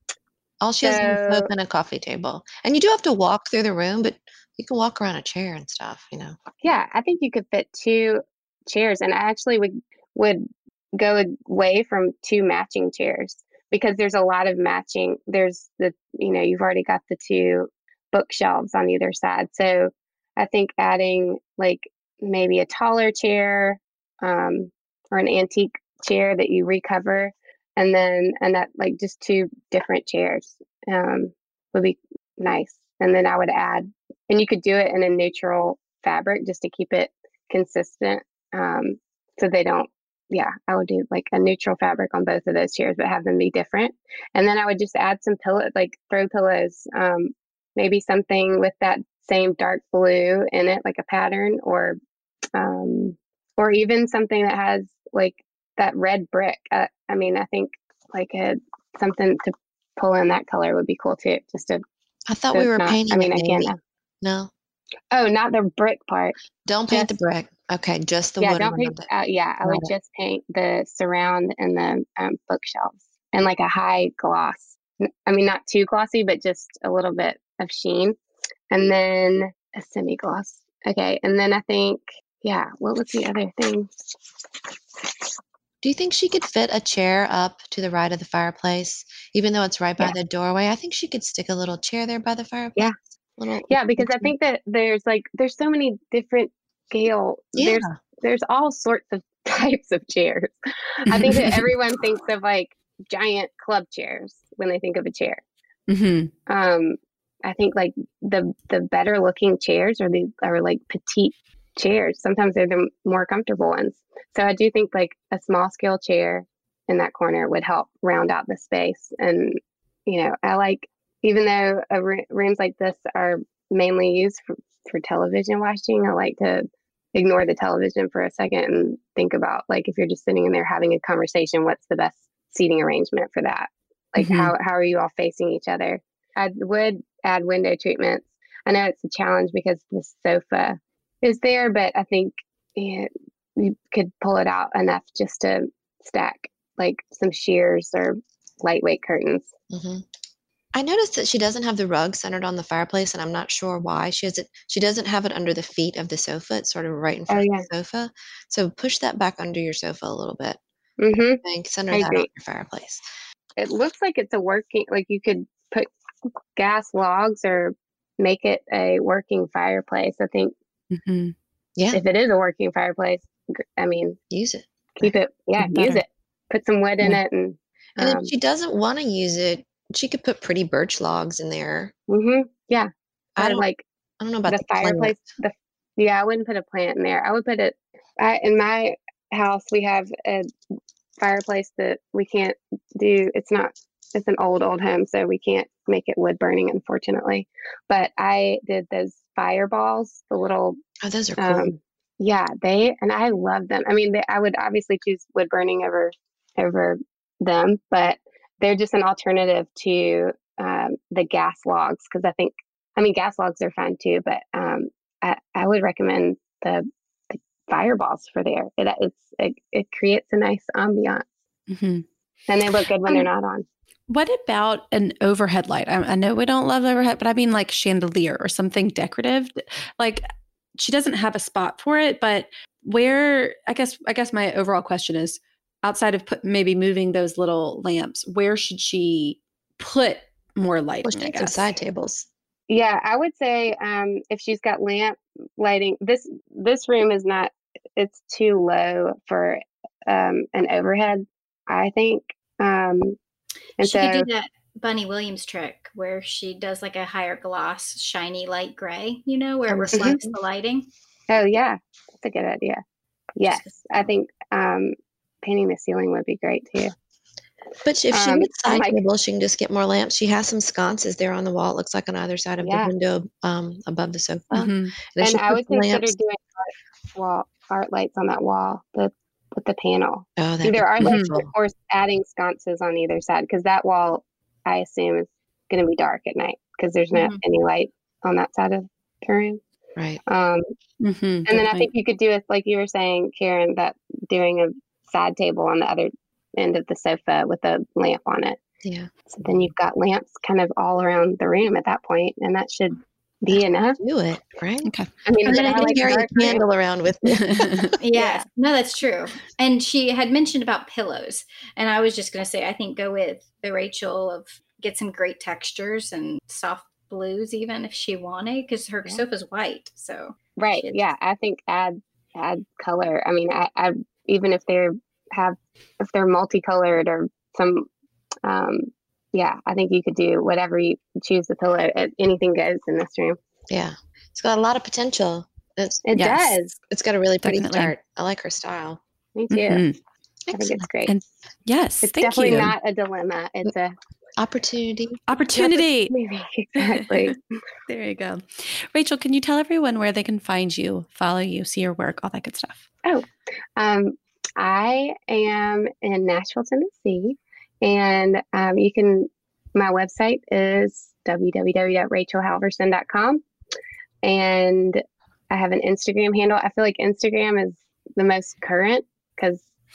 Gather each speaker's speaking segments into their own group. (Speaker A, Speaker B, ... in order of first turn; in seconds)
Speaker A: 0.6-6.4, 62.3-64.5, 66.7-69.1, 69.6-69.9, 85.8-94.3, 97.5-98.0, 149.7-150.1, 150.7-160.6, 161.4-163.0, 174.3-175.1, 178.0-181.9, 183.4-183.6, 184.2-185.2, 201.0-201.7, 241.1-242.3, 259.7-260.2, 267.8-276.1, 280.4-281.5, 298.8-299.7, 304.0-304.9, 305.4-307.9, 333.7-336.1, 336.9-339.0, 340.5-340.9, 344.4-345.2
Speaker B: 0.8-1.5, 6.6-52.0, 52.5-61.8, 62.5-63.8, 65.1-66.4, 66.9-67.2, 68.4-78.2, 78.7-83.9, 93.7-105.4, 106.5-149.5, 157.3-157.7, 161.0-161.4, 161.9-162.3, 163.6-170.5, 171.9-174.2, 175.0-178.3, 182.1-183.8, 184.5-190.5, 191.2-200.8, 201.4-221.2, 222.5-223.6, 242.7-253.2, 253.8-254.3, 259.9-260.2, 261.3-262.8, 263.4-266.9, 268.1-269.0, 272.6-272.9, 275.2-289.6, 290.3-290.6, 291.4-298.6, 299.3-304.0, 305.3-306.6, 308.1-308.4, 320.6-327.9, 328.4-333.4, 336.1-336.7, 339.3-339.8, 340.5-341.2, 342.0-343.9, 345.6-347.4, 353.1-363.4, 364.2-369.6
Speaker C: 101.1-101.6, 105.9-106.3, 134.2-134.5, 170.9-171.3, 175.6-176.0, 221.7-222.1, 224.1-241.7, 274.5-274.9, 281.0-281.3, 291.0-291.9, 304.8-305.9, 307.4-307.9, 336.1-336.7, 337.4-337.9, 339.5-340.0, 341.1-342.7, 345.3-346.1, 346.8-347.3, 347.9-352.8
Speaker D: 253.8-260.9, 287.1-287.4, 308.0-321.0